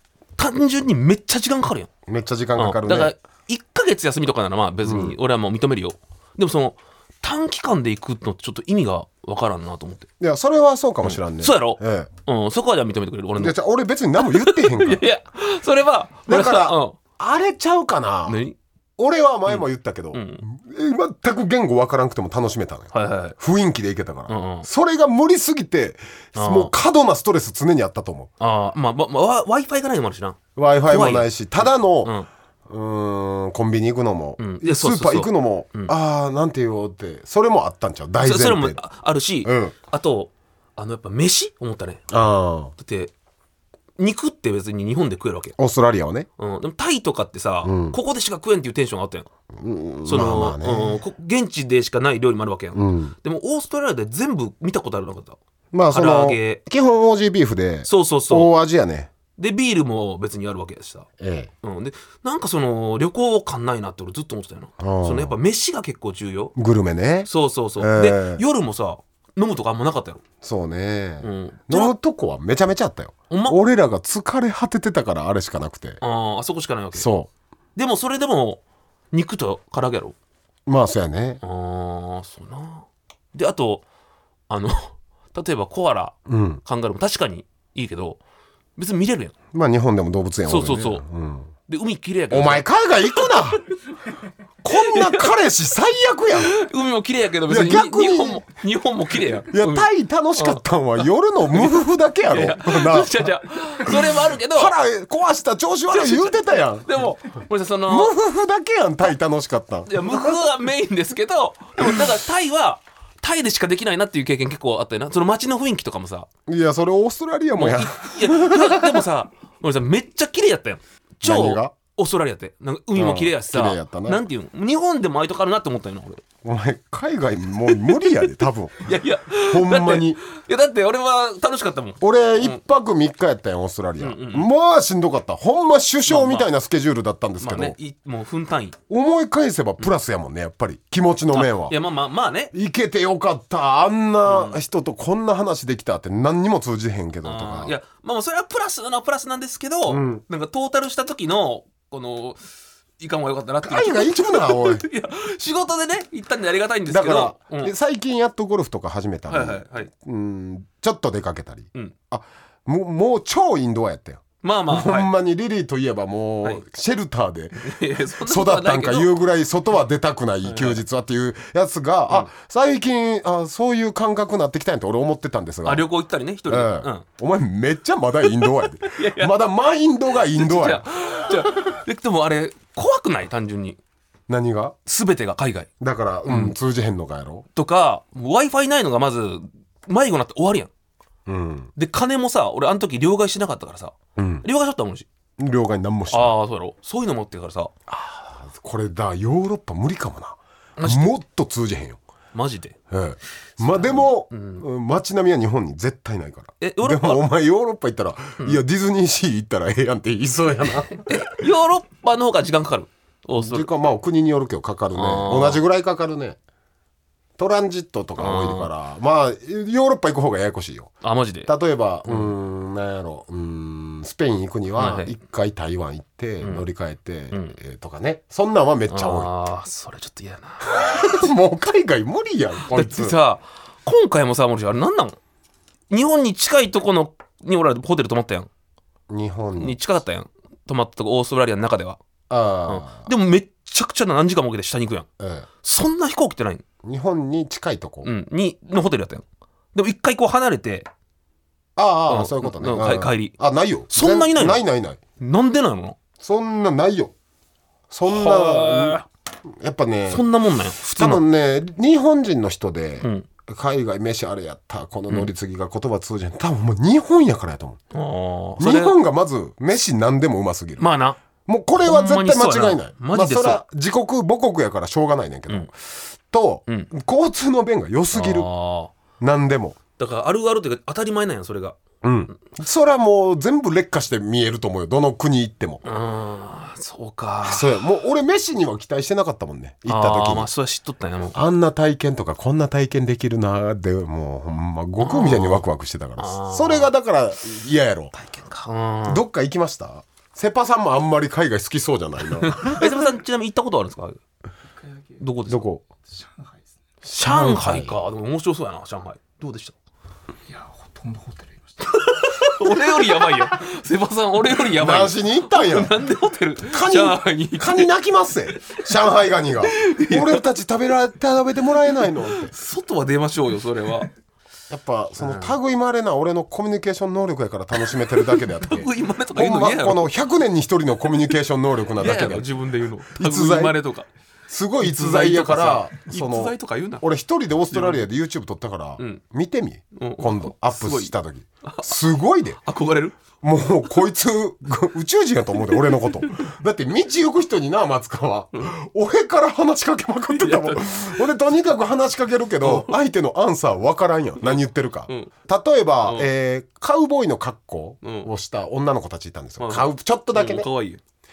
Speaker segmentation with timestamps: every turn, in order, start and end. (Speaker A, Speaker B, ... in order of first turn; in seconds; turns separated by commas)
Speaker A: 0.4-1.9, Speaker B: 2.1-3.1, Speaker A: 2.6-10.1, Speaker B: 4.8-5.2, Speaker B: 10.2-12.1, Speaker A: 11.0-13.5, Speaker B: 13.4-15.0, Speaker A: 14.2-17.0, Speaker B: 16.3-18.4, Speaker A: 18.3-18.6, Speaker B: 19.0-28.3, Speaker A: 19.5-20.4, Speaker A: 22.9-23.4, Speaker A: 24.3-24.7, Speaker A: 26.4-26.7, Speaker A: 28.4-32.3, Speaker B: 30.6-32.1, Speaker B: 32.7-38.8, Speaker A: 34.4-35.9, Speaker A: 38.2-42.0, Speaker B: 39.4-39.8, Speaker B: 42.1-42.7, Speaker A: 42.8-43.1, Speaker A: 44.0-45.5, Speaker B: 45.6-46.3, Speaker A: 46.4-49.3, Speaker B: 47.6-48.0, Speaker B: 49.5-51.0, Speaker A: 50.1-55.4, Speaker B: 52.7-53.1, Speaker B: 55.7-59.1, Speaker A: 55.9-56.6, Speaker A: 57.9-58.5, Speaker A: 59.4-61.1, Speaker B: 61.2-61.5, Speaker A: 61.6-66.5, Speaker B: 64.8-65.3, Speaker B: 66.6-68.4, Speaker A: 67.3-70.2, Speaker B: 70.4-76.0, Speaker A: 71.2-71.9, Speaker A: 73.3-73.6, Speaker A: 76.0-77.1, Speaker B: 77.0-77.3, Speaker A: 77.8-78.6, Speaker A: 79.1-80.2, Speaker B: 80.7-81.4, Speaker A: 81.4-83.8, Speaker A: 84.5-88.2, Speaker B: 86.3-86.6, Speaker A: 88.8-89.3, Speaker B: 89.5-91.5, Speaker A: 90.5-91.0, Speaker A: 91.7-92.7, Speaker B: 92.3-93.6, Speaker B: 94.6-96.6, Speaker A: 94.7-95.3, Speaker A: 96.4-100.6, Speaker B: 97.5-98.4, Speaker B: 99.5-103.3, Speaker A: 101.5-104.7, Speaker B: 103.8-107.0, Speaker A: 105.9-108.2, Speaker B: 107.9-110.2, Speaker A: 109.9-116.3, Speaker B: 116.5-119.0, Speaker A: 117.6-126.2, Speaker B: 121.2-121.8, Speaker B: 123.0-124.2, Speaker B: 126.4-128.8, Speaker A: 128.8-132.6, Speaker B: 129.4-130.2, Speaker B: 132.0-137.8, Speaker A: 134.0-134.5, Speaker A: 136.1-136.5, Speaker A: 137.4-138.8, Speaker B: 138.9-141.8, Speaker A: 141.3-142.5, Speaker B: 142.5-147.7, Speaker A: 144.3-144.6, Speaker A: 147.2-152.4, Speaker B: 149.9-150.2, Speaker A: 153.0-157.7, Speaker B: 153.6-154.8, Speaker B: 156.9-175.9, Speaker A: 159.3-159.9, Speaker A: 164.4-165.1, Speaker A: 167.6-169.2, Speaker A: 170.4-170.8, Speaker A: 175.7-177.1, Speaker B: 176.5-181.5, Speaker A: 178.8-179.3, Speaker A: 180.2-183.8, Speaker B: 184.3-184.8, Speaker A: 184.9-185.7, Speaker B: 185.8-187.4, Speaker A: 186.3-186.5, Speaker A: 187.6-190.7, Speaker B: 191.3-191.7, Speaker A: 191.8-195.1, Speaker B: 194.2-194.5, Speaker B: 195.4-196.3, Speaker A: 196.1-197.8, Speaker B: 197.9-202.0, Speaker A: 200.8-201.1, Speaker A: 202.3-202.8, Speaker B: 202.9-211.3, Speaker A: 203.6-204.7, Speaker A: 206.6-207.2, Speaker A: 211.1-213.7, Speaker B: 213.4-216.4, Speaker A: 214.9-215.6, Speaker B: 217.4-220.9, Speaker A: 218.2-218.7, Speaker A: 221.0-221.5, Speaker B: 221.5-229.3, Speaker A: 222.1-222.3, Speaker A: 224.8-225.2, Speaker A: 228.9-231.1, Speaker B: 230.7-233.2, Speaker A: 232.7-235.2, Speaker A: 235.9-238.5, Speaker B: 239.1-239.8, Speaker A: 239.6-242.0, Speaker B: 242.3-243.1, Speaker A: 242.7-245.1, Speaker B: 245.2-245.5, Speaker A: 245.6-246.6, Speaker B: 246.8-248.1, Speaker A: 248.0-250.9, Speaker B: 251.8-255.0, Speaker A: 252.1-253.3, Speaker A: 253.9-254.6, Speaker A: 255.2-256.0, Speaker B: 256.2-257.1, Speaker B: 257.9-260.2, Speaker A: 258.1-259.1, Speaker A: 260.1-261.2, Speaker B: 260.8-267.8, Speaker A: 263.0-263.3, Speaker A: 267.9-269.0, Speaker B: 268.6-270.9, Speaker A: 270.8-271.2, Speaker B: 271.5-278.5, Speaker A: 271.8-273.6, Speaker A: 278.1-278.9, Speaker B: 279.2-279.8, Speaker A: 280.0-281.8, Speaker B: 282.0-285.9, Speaker A: 285.8-287.8, Speaker B: 287.4-290.5, Speaker A: 289.9-291.4, Speaker B: 291.3-298.1, Speaker A: 295.0-295.7, Speaker A: 296.2-296.9, Speaker A: 298.1-299.2, Speaker B: 299.1-303.0, Speaker A: 302.4-304.2, Speaker C: 304.8-305.1, Speaker A: 305.2-305.6, Speaker B: 305.5-305.9, Speaker C: 306.1-306.6, Speaker B: 307.1-307.9, Speaker A: 307.2-309.8, Speaker C: 310.5-312.1, Speaker A: 311.9-317.9, Speaker B: 314.7-316.0, Speaker B: 316.6-322.5, Speaker A: 319.7-320.4, Speaker A: 322.2-324.1, Speaker B: 324.7-332.5, Speaker A: 325.2-325.6, Speaker A: 328.1-330.1, Speaker A: 332.0-334.1, Speaker B: 333.1-333.8, Speaker B: 334.5-342.6, Speaker A: 334.8-337.0, Speaker A: 337.7-338.1, Speaker A: 340.0-341.9, Speaker A: 342.6-343.2, Speaker B: 343.4-360.7, Speaker A: 350.4-351.2, Speaker A: 352.6-352.9, Speaker A: 354.4-355.3, Speaker A: 356.0-356.3, Speaker A: 358.0-358.3, Speaker A: 359.6-361.0